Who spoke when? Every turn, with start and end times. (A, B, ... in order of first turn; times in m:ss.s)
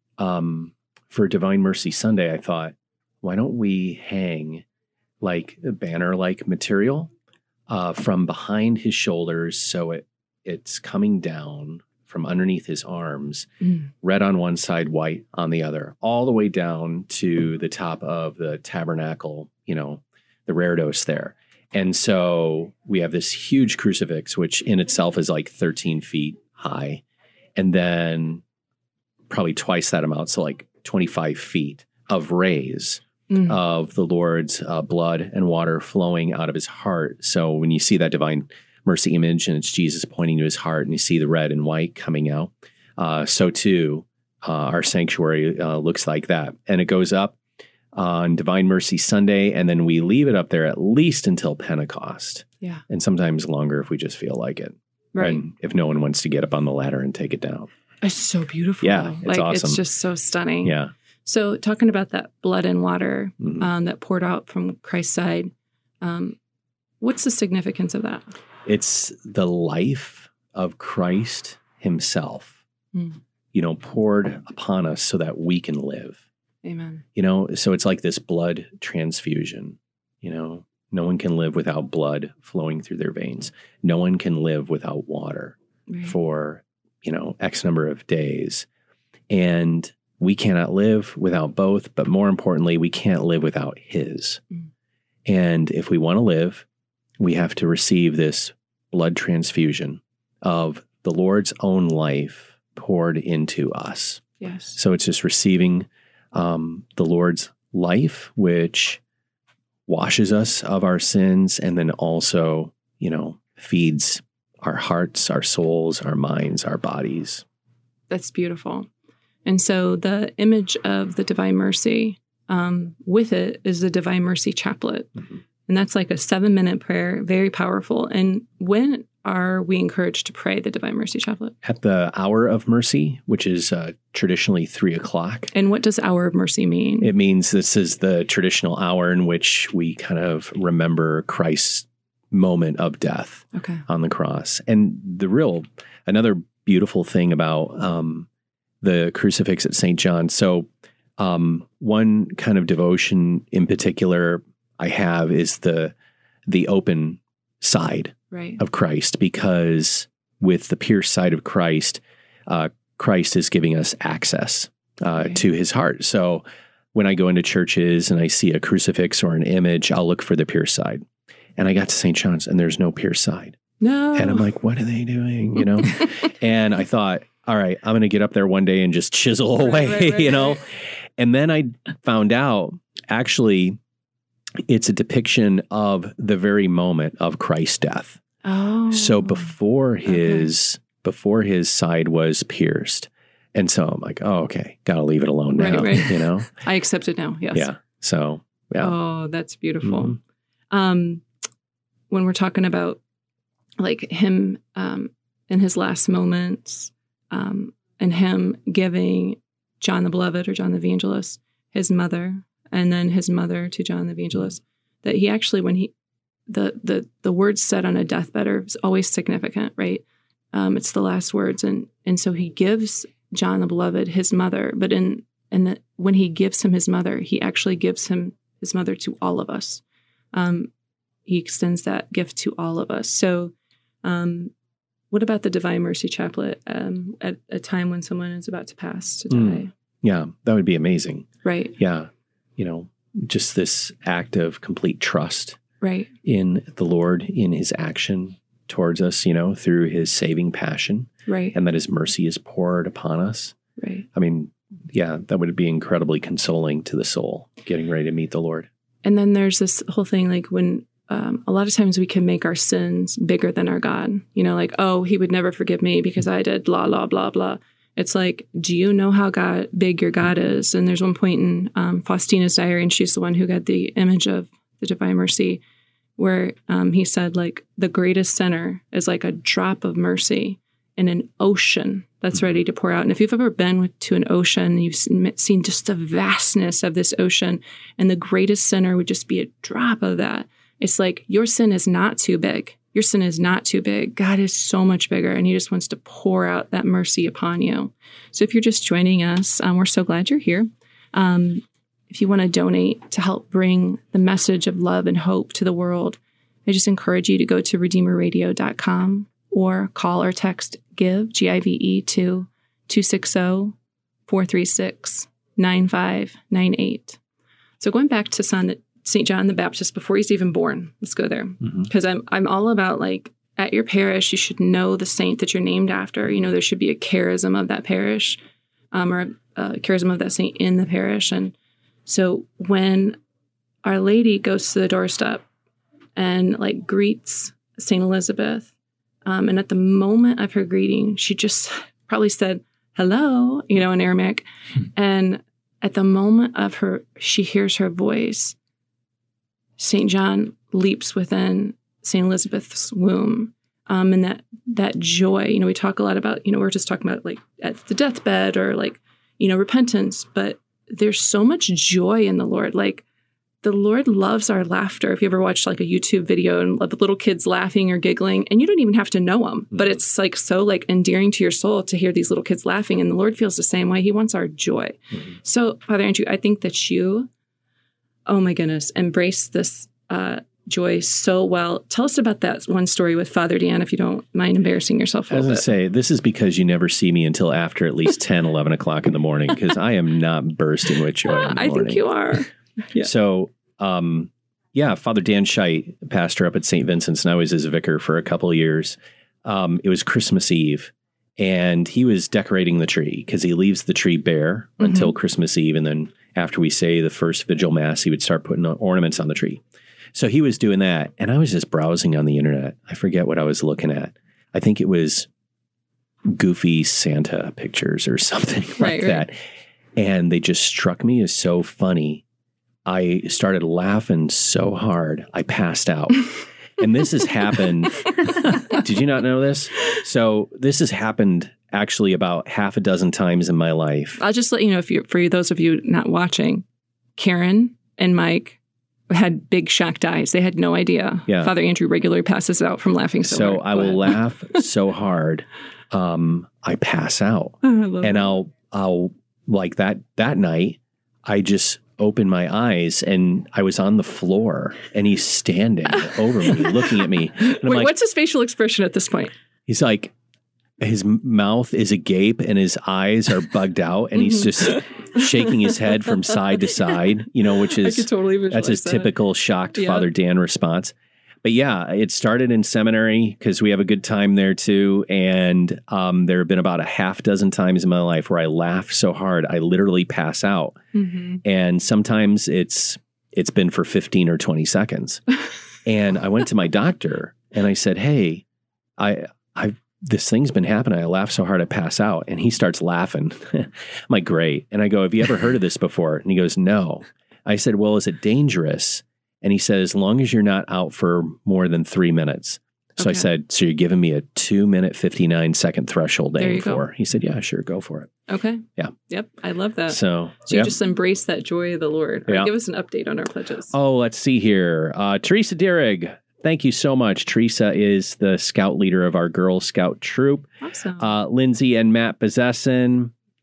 0:00.2-0:04.6 A
0:05.2-0:07.1 A
0:07.7-0:13.5 A
0:14.0-0:27.0 A
0:27.6-0:28.4 A
0:29.3-0:47.4 A
0:33.3-0:33.6 B
0:47.9-0:57.7 A
0:55.1-0:55.4 B
0:58.0-1:06.4 B
0:58.8-0:59.8 A
1:00.6-1:00.9 A
1:03.4-1:03.7 A
1:07.0-1:08.3 B
1:08.6-1:12.6 A
1:12.9-1:13.2 B
1:13.5-1:16.2 A
1:16.6-1:17.0 B
1:17.1-1:28.7 A
1:25.9-1:26.2 B
1:29.3-1:34.4 A
1:35.3-1:36.6 A
1:37.2-1:49.0 A
1:44.4-1:44.8 B
1:49.9-1:57.4 A
1:58.1-1:58.9 B
1:59.4-2:05.1 B
2:05.7-2:11.5 B
2:11.6-2:15.5 A
2:15.5-2:17.1 B
2:17.0-2:28.3 A
2:23.5-2:23.8 B
2:28.8-2:35.9 A
2:36.5-2:51.0 A
2:38.3-2:38.6 B
2:45.2-2:45.4 B
2:51.6-2:53.6 A
2:53.8-2:54.4 B
2:54.1-3:03.8 A
2:59.6-3:00.6 B
3:04.6-3:08.2 A
3:08.4-3:09.5 B
3:08.9-3:16.5 A
3:10.0-3:10.5 B
3:15.6-3:17.7 B
3:17.5-3:18.9 A
3:18.8-3:20.2 B
3:19.8-3:20.2 A
3:20.7-3:21.2 B
3:22.1-3:23.0 B
3:23.8-3:35.9 B
3:36.5-3:49.8 B
3:50.3-3:50.7 B
3:51.3-3:53.5 B
3:54.0-3:54.5 B
3:55.1-3:59.7 B
3:59.3-4:05.6 A
4:01.4-4:01.8 B
4:05.8-4:06.1 B
4:06.2-4:13.6 A
4:11.3-4:11.6 B
4:13.8-4:14.1 B
4:14.1-4:18.7 A
4:19.0-4:35.6 B
4:36.2-5:13.7 B
5:14.3-5:17.2 B
5:17.8-5:28.4 B
5:28.9-5:31.5 B
5:32.1-5:33.2 B
5:33.8-5:35.4 B
5:36.2-5:38.7 B
5:39.2-5:48.6 B
5:49.8-6:03.0 B
6:03.6-6:17.3 B
6:18.2-6:25.6 B
6:25.3-6:32.0 A
6:31.2-6:33.1 B
6:33.0-6:49.6 A
6:44.8-6:45.1 B
6:50.1-6:55.3 A
6:56.3-6:59.4 A
6:58.8-6:59.2 B
7:00.0-7:02.2 A
7:02.8-7:14.2 A
7:14.2-7:16.6 B
7:17.2-7:18.6 B
7:19.1-7:24.2 B
7:21.3-7:21.5 A
7:23.2-7:37.9 A
7:27.6-7:28.3 B
7:36.4-7:39.3 B
7:39.7-7:40.1 A
7:40.8-8:00.8 A
7:44.2-7:46.7 B
7:47.6-7:49.1 B
7:49.7-7:50.1 B
8:00.9-8:01.4 B
8:01.4-8:05.2 A
8:05.8-8:08.4 A
8:09.0-8:28.1 A
8:23.0-8:23.3 B
8:26.4-8:26.8 B
8:28.3-8:33.7 B
8:29.9-8:30.7 A
8:33.7-8:40.5 A
8:40.6-8:41.1 B
8:41.0-8:43.1 A